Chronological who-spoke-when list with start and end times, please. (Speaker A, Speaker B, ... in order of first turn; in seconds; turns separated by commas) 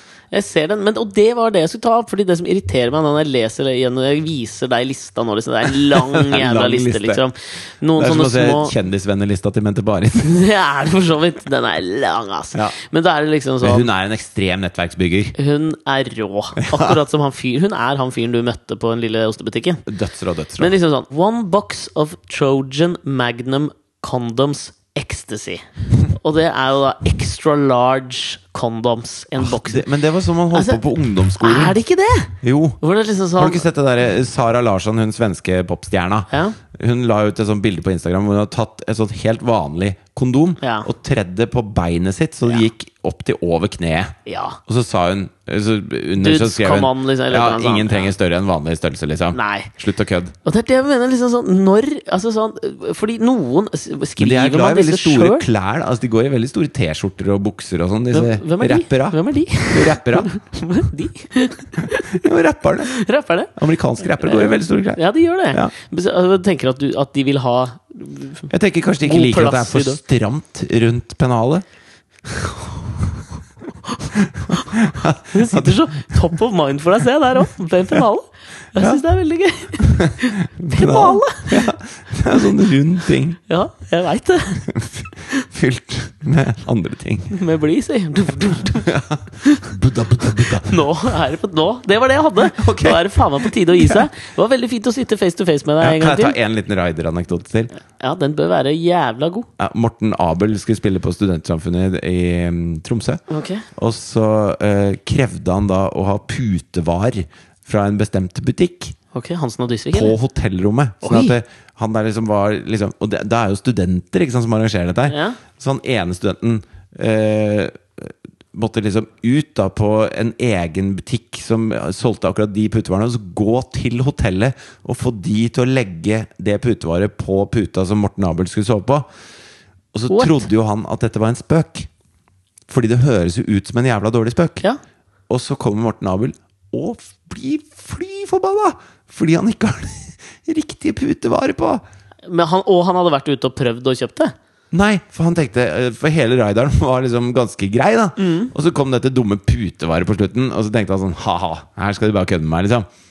Speaker A: 0.3-8.8, Speaker B: 5.8-7.2, Speaker B: 8.0-10.4, Speaker A: 10.2-13.9, Speaker B: 13.6-15.3, Speaker A: 15.4-19.9, Speaker B: 16.6-17.0, Speaker B: 19.9-20.7, Speaker A: 20.6-29.8, Speaker B: 29.4-31.8, Speaker A: 30.5-30.8, Speaker A: 31.4-33.6, Speaker B: 32.4-32.8, Speaker B: 33.4-50.4, Speaker A: 36.3-36.6, Speaker A: 40.6-40.9, Speaker A: 44.3-44.6, Speaker A: 46.2-48.1, Speaker A: 49.3-49.7, Speaker A: 50.5-55.5, Speaker B: 54.2-60.3, Speaker A: 58.1-62.2, Speaker B: 61.8-63.0, Speaker A: 62.9-63.5, Speaker B: 63.5-65.7, Speaker A: 64.2-68.5, Speaker B: 68.5-71.6, Speaker A: 69.0-70.0, Speaker B: 74.2-75.8, Speaker A: 74.5-81.7, Speaker B: 78.8-79.0, Speaker B: 79.8-83.4, Speaker A: 83.5-84.7, Speaker B: 84.7-87.4, Speaker A: 87.3-96.4, Speaker B: 88.5-90.8, Speaker B: 92.6-94.1, Speaker B: 95.8-97.7, Speaker A: 97.8-99.5, Speaker B: 99.6-103.2, Speaker A: 103.3-103.7, Speaker B: 103.8-109.0, Speaker A: 109.1-110.2, Speaker B: 109.9-129.1, Speaker A: 111.0-111.3, Speaker A: 115.1-115.4, Speaker B: 129.9-131.9, Speaker A: 130.1-130.5, Speaker B: 132.7-134.6, Speaker B: 135.3-141.8, Speaker A: 142.3-144.3, Speaker B: 144.7-152.9, Speaker A: 148.2-148.5